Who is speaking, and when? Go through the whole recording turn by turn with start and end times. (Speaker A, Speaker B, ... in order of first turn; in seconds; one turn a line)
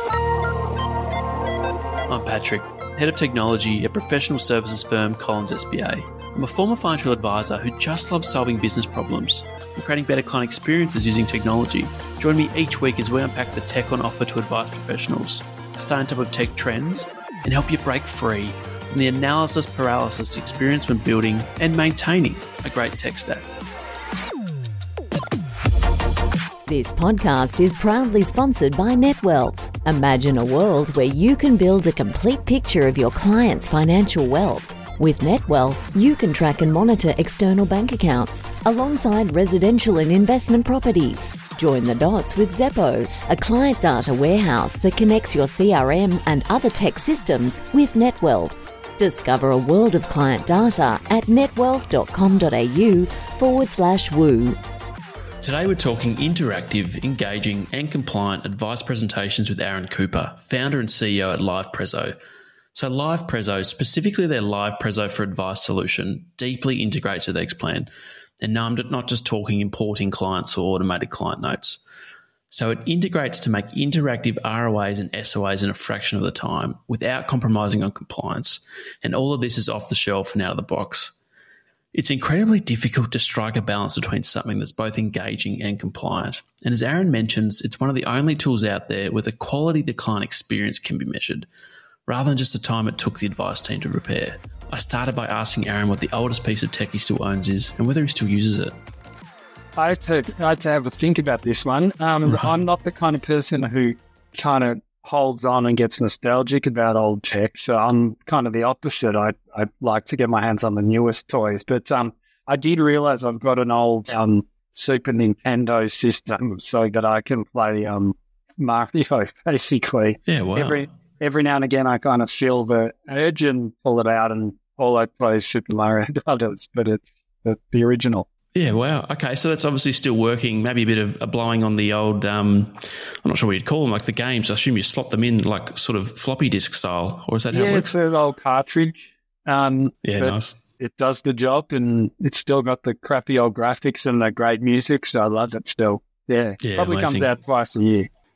Speaker A: 2.1-23.4
Speaker B: 26.7-54.6
Speaker A: 55.4-62.1
Speaker A: 62.7-67.9
Speaker A: 68.4-71.8
Speaker A: 72.5-81.1
Speaker A: 81.9-91.5
Speaker A: 92.1-98.7
Speaker C: 99.8-128.3
Speaker A: 120.3-120.8
Speaker A: 128.5-137.9
Speaker C: 137.5-138.9
Speaker C: 139.5-148.1
Speaker A: 140.0-140.5
Speaker A: 146.6-147.3